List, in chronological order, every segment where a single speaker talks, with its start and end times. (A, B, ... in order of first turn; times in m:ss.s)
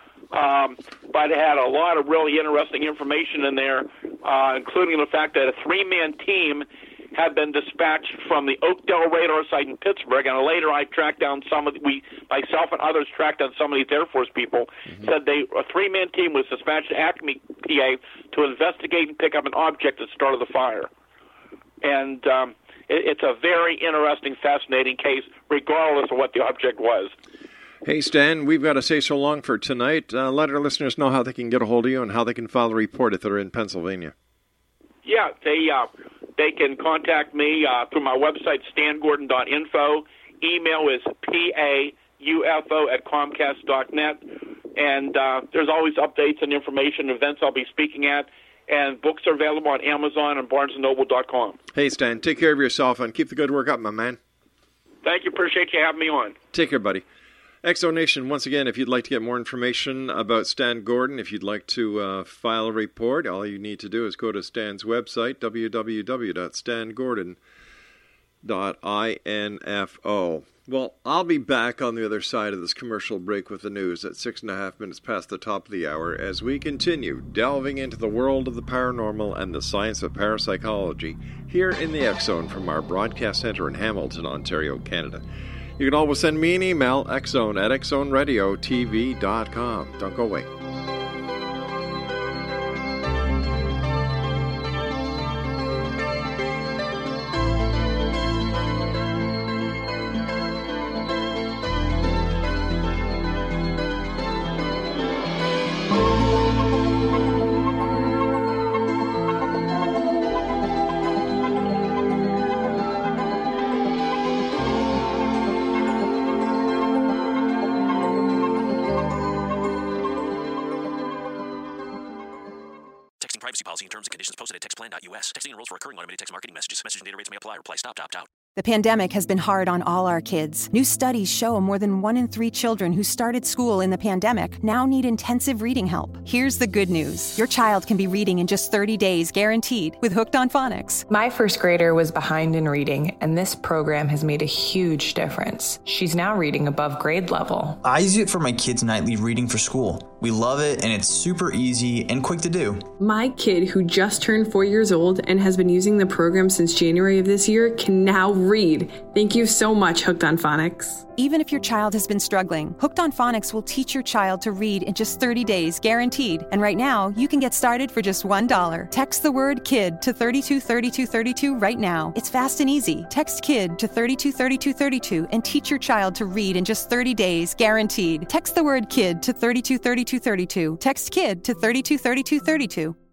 0:00.3-0:20.9 A
0:21.8-0:27.1 A
0:27.8-0:34.1 B
0:35.0-0:44.2 A
0:44.8-0:51.6 A
0:51.7-0:54.2 B
0:55.0-0:56.4 A
0:56.5-0:57.0 B
0:57.6-1:07.4 B
1:08.4-1:25.2 B
1:25.8-1:30.5 B
2:03.2-2:08.3 C
2:08.5-2:21.0 D
2:21.1-2:27.8 E
2:27.8-2:32.9 F
2:33.0-2:41.0 G
2:41.2-3:03.0 D